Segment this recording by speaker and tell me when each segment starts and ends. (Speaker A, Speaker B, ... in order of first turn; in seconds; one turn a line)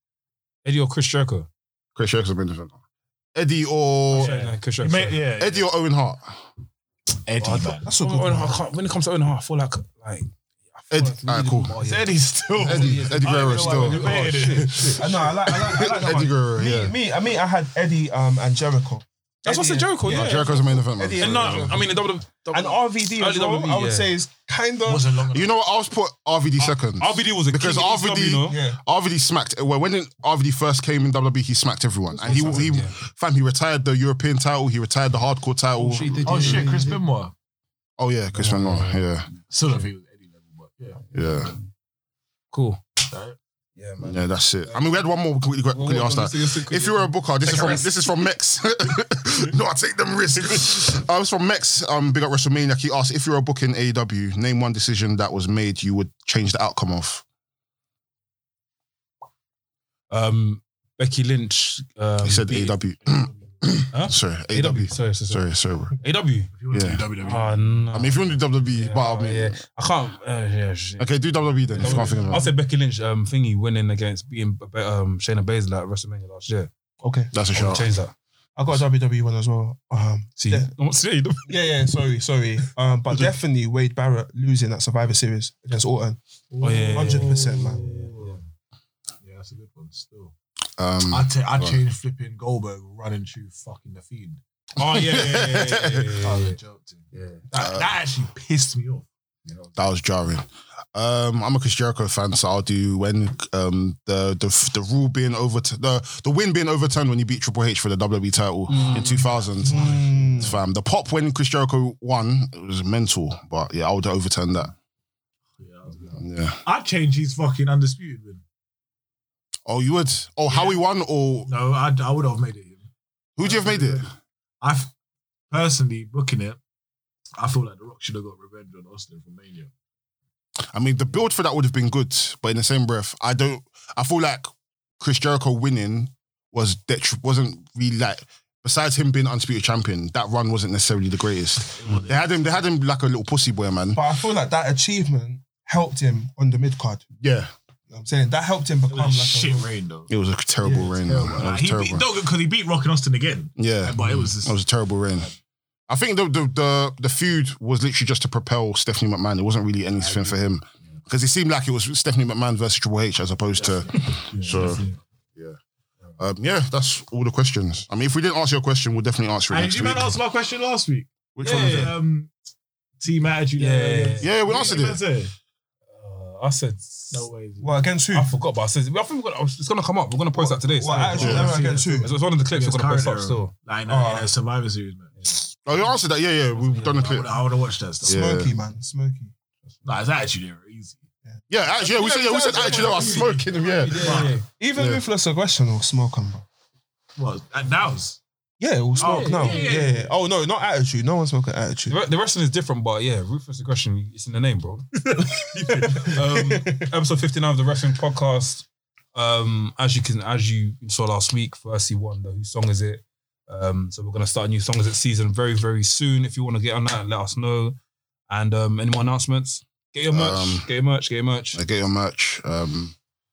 Speaker A: 0.6-1.5
Speaker B: 1.9-2.7
Speaker B: 3.4-4.3
Speaker A: 4.1-5.2
Speaker C: 4.1-5.7
Speaker B: 5.3-6.2
Speaker C: 7.2-7.9
Speaker A: 7.4-15.1
Speaker D: 7.8-8.6
Speaker B: 10.9-11.7
Speaker C: 11.8-15.3
Speaker B: 12.6-14.3
Speaker D: 15.0-20.3
Speaker B: 15.4-16.9
Speaker A: 19.4-24.1
Speaker B: 20.0-21.9
Speaker D: 20.9-21.9
Speaker D: 22.5-25.1
Speaker C: 24.9-25.6
Speaker B: 25.3-36.8
Speaker A: 26.6-28.6
Speaker D: 28.5-28.8
Speaker A: 32.2-32.9
Speaker A: 35.8-37.0
Speaker C: 36.2-37.3
Speaker B: 38.0-39.3
Speaker A: 38.3-39.9
Speaker C: 39.5-41.0
Speaker B: 41.1-41.5
Speaker A: 42.5-42.8
Speaker C: 43.1-43.4
Speaker A: 43.8-44.9
Speaker B: 44.0-57.2
Speaker A: 45.7-47.9
Speaker A: 60.1-62.8
Speaker B: 62.2-65.9
Speaker C: 63.0-63.4
Speaker A: 63.9-66.5
Speaker C: 66.5-67.8
Speaker B: 66.7-67.0
Speaker A: 67.2-76.7
Speaker B: 67.9-69.6
Speaker B: 71.0-72.5
Speaker C: 71.7-72.5
Speaker D: 77.0-77.3
Speaker B: 77.3-77.9
Speaker A: 77.5-78.1
Speaker D: 78.6-80.7
Speaker A: 80.4-81.7
Speaker D: 81.4-86.2
Speaker C: 86.5-88.5
Speaker A: 86.6-88.4
Speaker D: 86.9-87.9
Speaker C: 89.2-90.3
Speaker B: 90.8-91.8
Speaker C: 91.1-94.4
Speaker A: 94.8-96.6
Speaker B: 94.8-96.1
Speaker C: 96.2-99.8
Speaker A: 97.1-97.4
Speaker B: 97.5-97.9
Speaker B: 99.8-114.7
Speaker A: 108.7-109.4
Speaker D: 109.6-110.5
Speaker C: 115.6-118.4
Speaker B: 116.2-116.6
Speaker B: 119.7-121.5
Speaker C: 120.5-120.8
Speaker C: 121.5-122.9
Speaker B: 123.4-124.1
Speaker C: 123.4-124.1
Speaker C: 124.6-124.9
Speaker C: 125.5-126.6
Speaker C: 127.4-129.7
Speaker B: 130.7-134.5
Speaker B: 135.0-144.0
Speaker C: 141.7-142.7
Speaker D: 143.9-147.1
Speaker B: 147.2-147.5
Speaker D: 147.9-149.7
Speaker C: 148.9-150.1
Speaker B: 150.1-152.1
Speaker D: 150.6-151.0
Speaker C: 151.0-154.6
Speaker B: 153.6-155.3
Speaker B: 155.9-165.6
Speaker C: 160.0-160.4
Speaker C: 163.6-165.0
Speaker B: 166.2-170.2
Speaker C: 169.5-172.3
Speaker B: 171.3-171.9
Speaker A: 171.4-171.9
Speaker C: 173.0-175.3
Speaker A: 173.6-174.3
Speaker B: 174.2-175.0
Speaker A: 175.9-177.3
Speaker C: 177.1-177.8
Speaker D: 177.6-178.3
Speaker A: 178.1-183.5
Speaker D: 180.4-182.1
Speaker C: 180.4-185.5
Speaker B: 181.2-181.6
Speaker D: 183.9-184.3
Speaker B: 185.7-187.4
Speaker A: 186.5-187.1
Speaker C: 187.0-188.2
Speaker B: 188.0-188.5
Speaker D: 188.1-189.3
Speaker C: 189.8-191.0
Speaker B: 191.5-195.0
Speaker A: 191.8-194.4
Speaker C: 194.0-194.4
Speaker D: 194.4-196.4
Speaker C: 197.2-198.2
Speaker D: 198.6-201.9
Speaker C: 198.9-200.1
Speaker A: 198.9-199.8
Speaker A: 201.9-217.8
Speaker D: 205.2-206.8
Speaker A: 218.3-221.6
Speaker B: 220.1-220.7
Speaker B: 221.5-222.9